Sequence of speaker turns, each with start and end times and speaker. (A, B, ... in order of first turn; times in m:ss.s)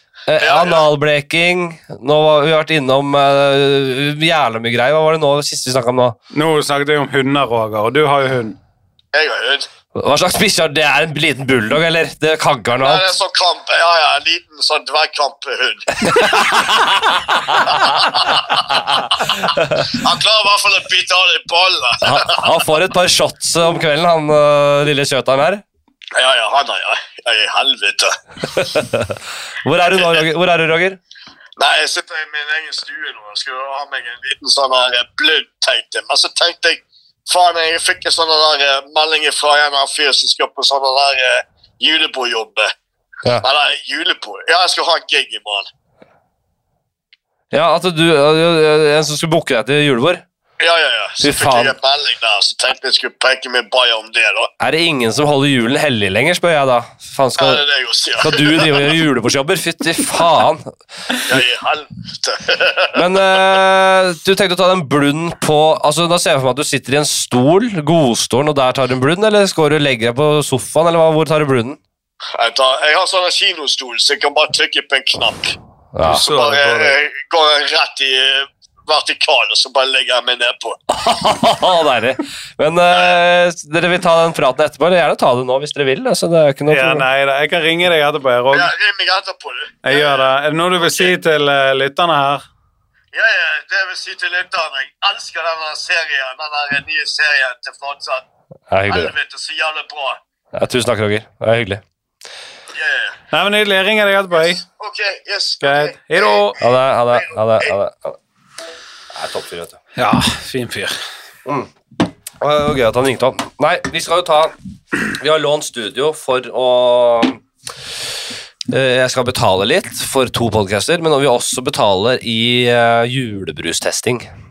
0:00.3-0:06.2 A
0:00.4-0:00.9 B
0:06.3-0:08.6 C
0:09.1-0:09.7 B
0:10.0-0:13.2 A
0:12.8-0:16.5 B
0:16.0-0:20.1 A
0:17.5-0:22.5 B
0:22.0-0:25.6 A
0:26.2-0:28.2 B
0:28.5-0:31.0 A
0:31.6-0:42.7 B
0:43.3-0:45.7 B
0:47.5-0:50.2 A
0:50.6-0:54.5 B
0:51.2-0:51.8 A
0:54.6-0:57.6 A
0:57.4-0:59.0 B
0:58.2-1:00.7 A
1:01.2-1:03.4 B
1:02.9-1:11.8 A
1:12.4-1:20.8 B
1:16.0-1:16.3 A
1:16.1-1:17.0 C
1:20.9-1:27.1 A
1:26.7-1:28.7 C
1:28.5-1:31.1 B
1:29.8-1:32.4 C
1:33.1-1:38.2 B
1:38.7-1:39.1 A
1:38.9-1:40.2 B
1:40.5-1:41.8 A
1:42.7-1:43.2 B
1:43.3-1:44.6 C
1:44.7-1:46.4 B
1:45.6-1:46.6 C
1:46.6-1:48.2 A
1:47.1-1:47.7 B
1:49.1-1:49.8 A
1:50.0-1:51.0 C
1:51.4-1:51.7 A
1:52.4-1:57.4 A
1:58.7-2:04.3 A